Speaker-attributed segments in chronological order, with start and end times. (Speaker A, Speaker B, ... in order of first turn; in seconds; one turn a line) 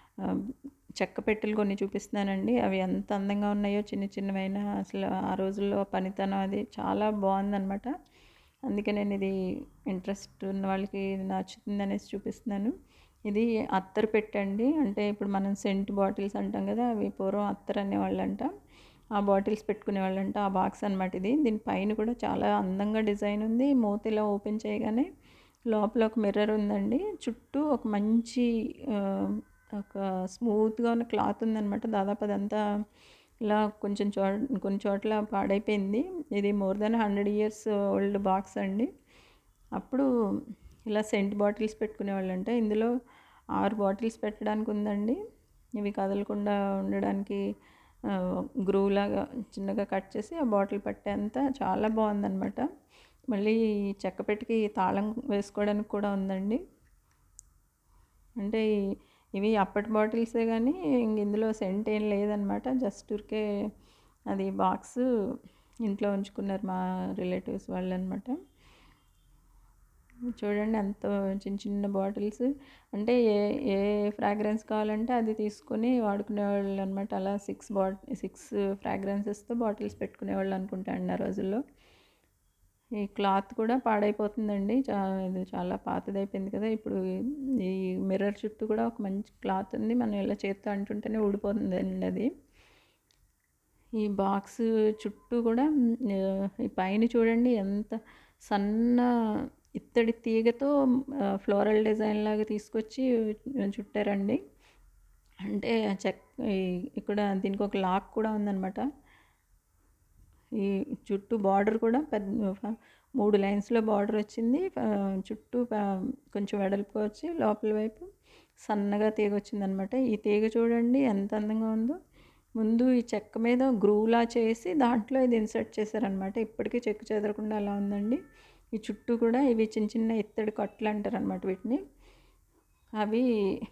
Speaker A: 1.0-7.9
Speaker A: 8.7-9.3
Speaker A: 9.9-12.7
Speaker A: 13.3-18.5
Speaker A: 19.2-25.1
Speaker A: 25.7-32.6
Speaker A: 33.4-38.9
Speaker A: 39.8-40.1
Speaker A: 40.9-42.9
Speaker A: 43.6-45.2
Speaker A: 45.8-47.4
Speaker A: 48.7-52.7
Speaker A: 53.3-56.6
Speaker A: 59.4-63.4
Speaker A: 64.3-65.0
Speaker A: 65.9-68.4
Speaker A: 70.4-81.6
Speaker A: 83.0-87.0
Speaker A: 87.6-92.3
Speaker A: 94.0-98.0
Speaker A: 98.5-99.1
Speaker A: 99.8-100.7
Speaker A: 101.4-103.1
Speaker A: 103.7-104.4
Speaker A: 105.5-108.8
Speaker A: 110.6-118.1
Speaker A: 118.7-122.0
Speaker A: 122.6-128.2
Speaker A: 128.8-131.8
Speaker A: 133.0-133.3